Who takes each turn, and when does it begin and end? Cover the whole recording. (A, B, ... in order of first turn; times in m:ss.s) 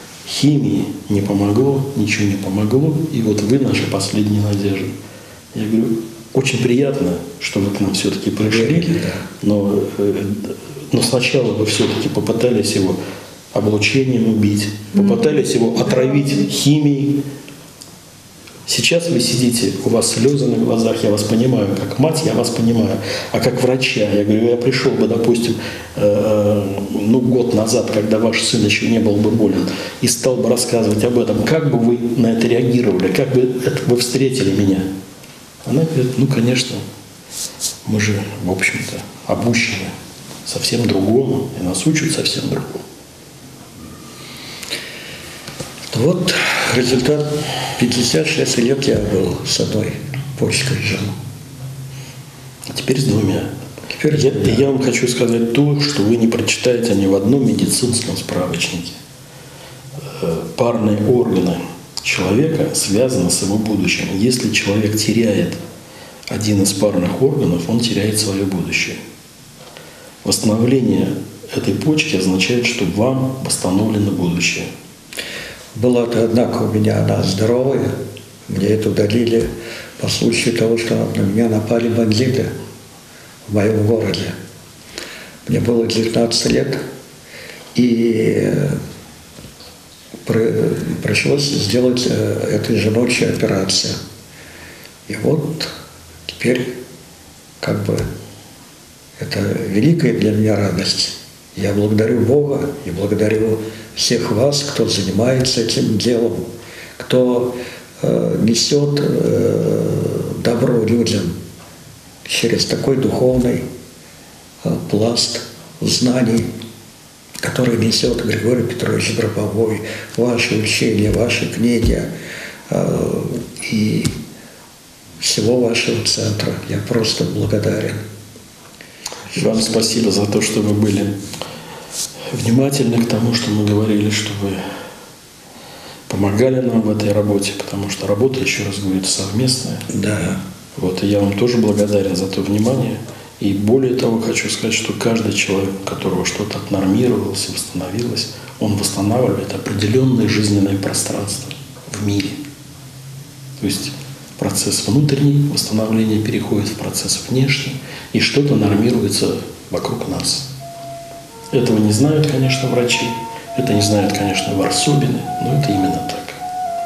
0:00.2-0:04.9 A
0:05.5-0:13.0 A
0:08.4-0:09.2 B
0:13.5-0:17.2 A
0:18.7-0:34.9 A
0:35.6-0:36.8 A
0:37.8-0:39.9 A
0:40.4-0:42.8 A
0:45.9-0:51.1 B
0:52.7-0:53.5 A
0:54.0-0:54.6 B
0:54.1-0:59.0 A
1:00.1-1:05.6 A
1:06.3-1:09.0 A
1:10.2-1:14.7 A
1:15.8-1:22.5 B
1:23.5-1:24.3 B
1:25.4-1:26.8 B
1:27.7-1:28.8 B
1:30.2-1:34.0 B
1:35.1-1:35.7 B
1:36.3-1:36.8 B
1:37.6-1:38.1 B
1:39.2-1:51.3 B
1:52.2-1:53.6 B
1:54.6-1:56.5 B
1:57.4-2:02.1 B
2:02.7-2:04.2 B
2:05.2-2:08.0 B
2:09.3-2:11.1 A
2:12.3-2:14.6 A
2:16.1-2:19.8 A
2:19.9-2:20.4 B
2:20.8-2:32.4 A
2:33.6-2:40.5 A
2:41.5-2:46.4 A